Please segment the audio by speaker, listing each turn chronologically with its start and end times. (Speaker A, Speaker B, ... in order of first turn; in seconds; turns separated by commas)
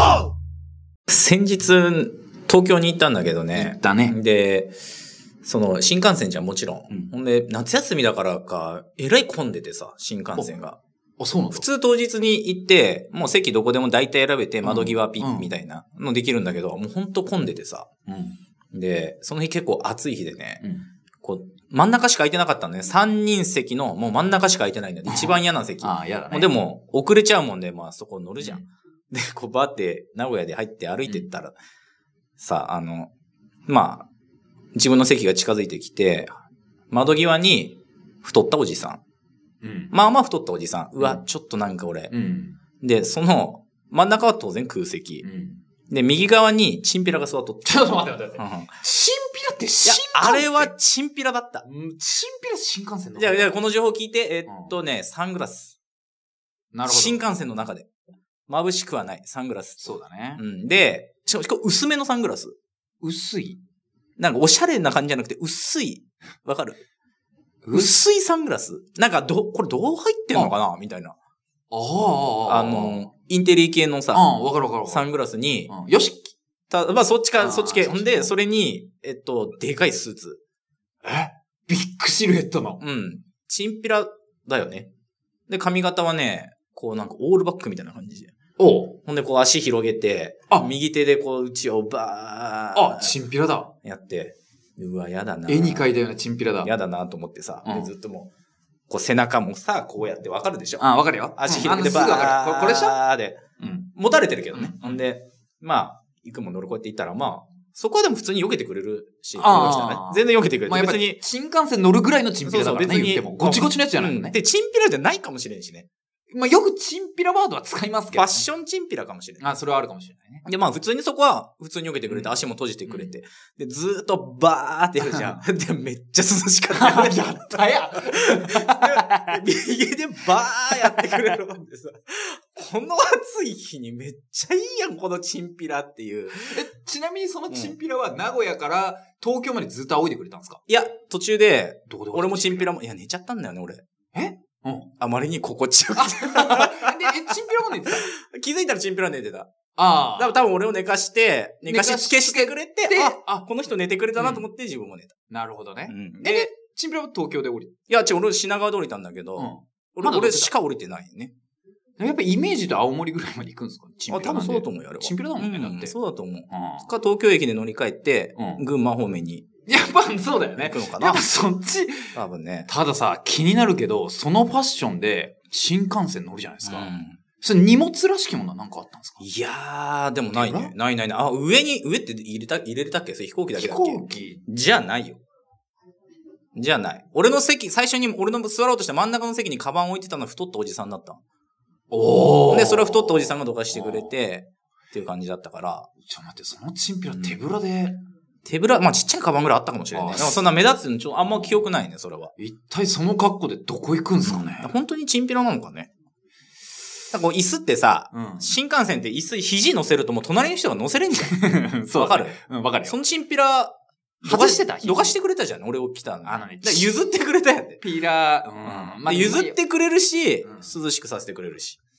Speaker A: 1.1-4.7, Speaker B: 3.5-4.2, Speaker A: 5.4-10.8, Speaker B: 11.2-11.6, Speaker A: 11.5-17.9, Speaker B: 14.6-15.5, Speaker B: 18.1-18.4, Speaker A: 18.7-20.6, Speaker B: 20.6-20.9, Speaker A: 21.2-31.5, Speaker B: 25.1-26.5, Speaker B: 28.4-28.7, Speaker A: 32.4-33.1, Speaker A: 33.7-34.1, Speaker A: 34.8-36.3, Speaker A: 36.9-39.0, Speaker B: 39.6-39.9, Speaker A: 39.9-42.1, Speaker B: 42.1-42.6, Speaker A: 42.8-45.2, Speaker B: 45.2-45.6, Speaker A: 45.9-48.7, Speaker B: 47.6-50.7, Speaker A: 49.8-51.7, Speaker B: 51.7-53.5, Speaker A: 53.2-55.8, Speaker B: 54.5-54.8, Speaker B: 56.7-57.2, Speaker A: 56.9-57.9, Speaker A: 58.5-62.5, Speaker B: 59.8-60.4, Speaker B: 63.0-63.6, Speaker A: 64.2-66.8, Speaker B: 67.6-68.0, Speaker A: 67.7-71.2, Speaker B: 71.7-73.0, Speaker A: 72.5-74.3, Speaker B: 74.1-75.1, Speaker A: 74.9-75.7, Speaker B: 75.7-76.3, Speaker A: 76.7-80.4, Speaker B: 77.4-78.3, Speaker B: 81.0-82.8, Speaker A: 82.8-84.9, Speaker A: 85.5-88.3, Speaker B: 88.6-89.0, Speaker A: 89.1-93.1, Speaker B: 92.7-93.7, Speaker A: 93.8-95.9, Speaker B: 95.5-96.7, Speaker A: 96.6-98.3, Speaker B: 97.6-97.9, Speaker A: 98.9-103.4, Speaker B: 100.8-103.0, Speaker B: 103.6-103.9, Speaker A: 104.0-111.2, Speaker B: 104.5-105.0, Speaker B: 109.4-114.4, Speaker A: 112.5-115.9, Speaker B: 116.3-118.5, Speaker A: 118.1-119.4, Speaker B: 119.4-120.5, Speaker A: 120.5-136.6, Speaker B: 122.9-123.1, Speaker B: 125.0-125.4, Speaker B: 126.7-129.4, Speaker B: 136.5-140.6, Speaker A: 137.5-137.7, Speaker A: 140.7-143.8, Speaker B: 141.9-142.7, Speaker B: 144.1-144.9, Speaker A: 145.0-149.5, Speaker B: 146.0-148.1, Speaker B: 149.8-150.4, Speaker A: 150.2-155.1, Speaker B: 151.7-153.5, Speaker B: 154.2-154.4, Speaker B: 155.3-157.7, Speaker A: 155.9-156.5, Speaker A: 157.9-161.3, Speaker B: 159.4-160.5, Speaker B: 162.0-165.9, Speaker A: 164.1-169.5, Speaker B: 166.5-166.9, Speaker B: 168.3-168.6, Speaker B: 169.7-172.1, Speaker A: 170.6-171.2, Speaker A: 172.1-172.7, Speaker B: 172.7-176.9, Speaker A: 176.6-177.2, Speaker B: 177.4-179.2, Speaker A: 179.2-185.2, Speaker B: 180.3-180.7, Speaker B: 183.5-184.4, Speaker A: 186.5-191.2, Speaker B: 191.9-194.1, Speaker A: 192.5-195.9, Speaker B: 196.1-198.0, Speaker A: 198.4-202.3, Speaker B: 199.9-200.5, Speaker B: 201.3-201.7, Speaker B: 202.4-204.7, Speaker A: 204.2-205.9, Speaker A: 207.1-211.4, Speaker B: 208.1-208.6, Speaker B: 211.2-213.0, Speaker A: 211.9-217.8, Speaker B: 214.2-215.2, Speaker B: 216.2-216.9, Speaker B: 217.8-219.6, Speaker A: 218.6-221.8, Speaker B: 220.4-220.7